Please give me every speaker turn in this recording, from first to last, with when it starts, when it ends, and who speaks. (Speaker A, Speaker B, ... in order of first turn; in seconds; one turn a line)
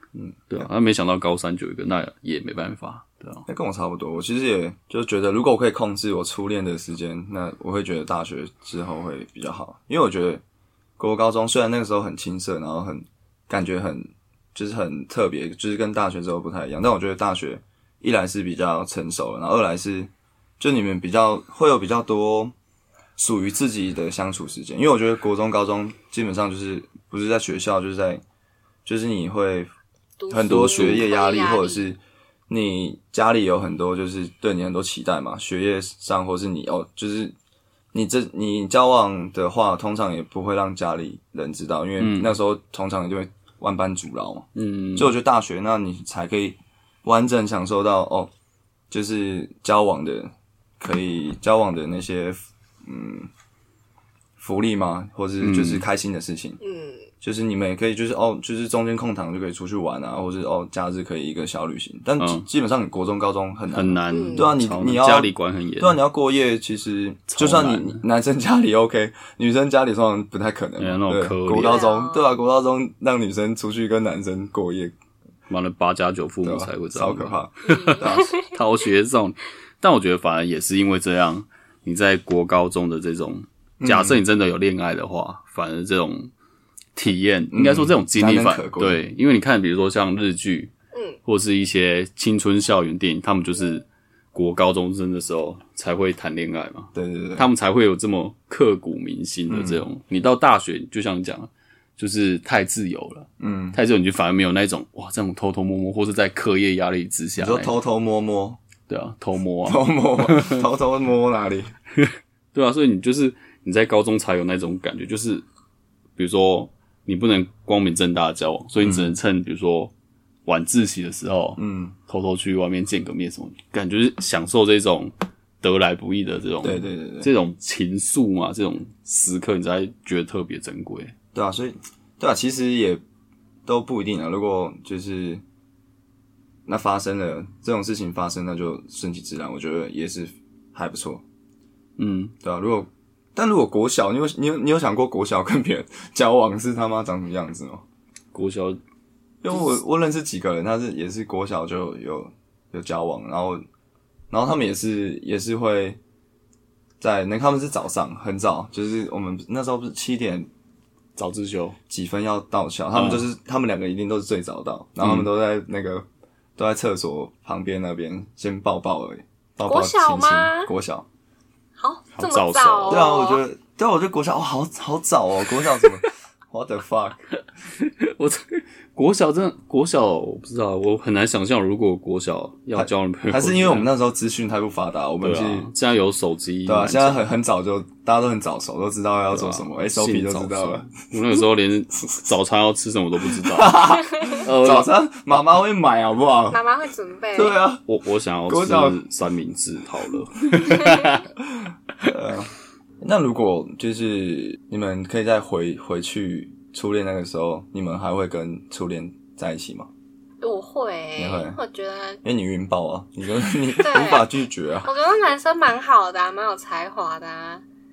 Speaker A: 0.1-0.7
Speaker B: 0.5-3.4
Speaker A: 3.5-10.4
Speaker A: 11.0-22.5
Speaker A: 23.2-28.2
Speaker A: 28.9-29.7
Speaker C: 30.2-31.9
Speaker A: 30.3-37.3
Speaker B: 30.3-31.1
Speaker A: 37.9-48.3
Speaker B: 42.0-42.3
Speaker B: 44.5-45.1
Speaker A: 48.9-53.3
Speaker A: 54.4-56.6
Speaker B: 55.4-55.8
Speaker C: 56.6-57.1
Speaker A: 57.2-74.9
Speaker B: 62.2-62.5
Speaker B: 63.7-66.0
Speaker C: 64.1-64.5
Speaker B: 67.3-68.0
Speaker B: 70.8-71.8
Speaker C: 71.6-72.3
Speaker B: 75.5-86.3
Speaker A: 76.4-78.4
Speaker C: 77.6-78.5
Speaker A: 83.8-84.2
Speaker B: 86.9-90.7
Speaker A: 87.5-89.0
Speaker C: 90.9-91.2
Speaker B: 91.2-107.7
Speaker A: 96.9-97.5
Speaker A: 99.5-99.8
Speaker A: 103.4-103.8
Speaker A: 107.4-108.6
Speaker B: 108.9-110.6
Speaker A: 109.6-111.7
Speaker B: 112.0-115.4
Speaker B: 116.2-119.9
Speaker A: 118.8-119.1
Speaker B: 120.5-131.1
Speaker A: 121.6-122.0
Speaker A: 126.6-127.3
Speaker A: 131.3-133.0
Speaker A: 133.7-135.4
Speaker A: 136.7-141.2
Speaker B: 142.0-142.3
Speaker A: 142.4-147.8
Speaker B: 148.3-148.8
Speaker A: 149.4-153.6
Speaker A: 154.3-156.0
Speaker A: 157.0-160.5
Speaker B: 161.2-161.8
Speaker A: 161.9-166.1
Speaker B: 162.9-163.2
Speaker B: 165.0-165.3
Speaker A: 166.6-171.1
Speaker C: 169.6-170.7
Speaker C: 171.8-173.4
Speaker B: 172.1-173.1
Speaker A: 172.9-177.2
Speaker B: 177.8-183.9
Speaker A: 182.8-185.7
Speaker B: 185.2-187.3
Speaker A: 186.7-190.9
Speaker B: 189.3-194.9
Speaker A: 193.4-196.6
Speaker C: 196.5-197.6
Speaker A: 197.3-197.8
Speaker B: 197.9-201.3
Speaker A: 198.5-199.0
Speaker A: 201.4-209.9
Speaker C: 210.4-212.2
Speaker A: 211.2-211.6
Speaker A: 212.2-214.9
Speaker C: 213.8-214.3
Speaker C: 214.8-217.6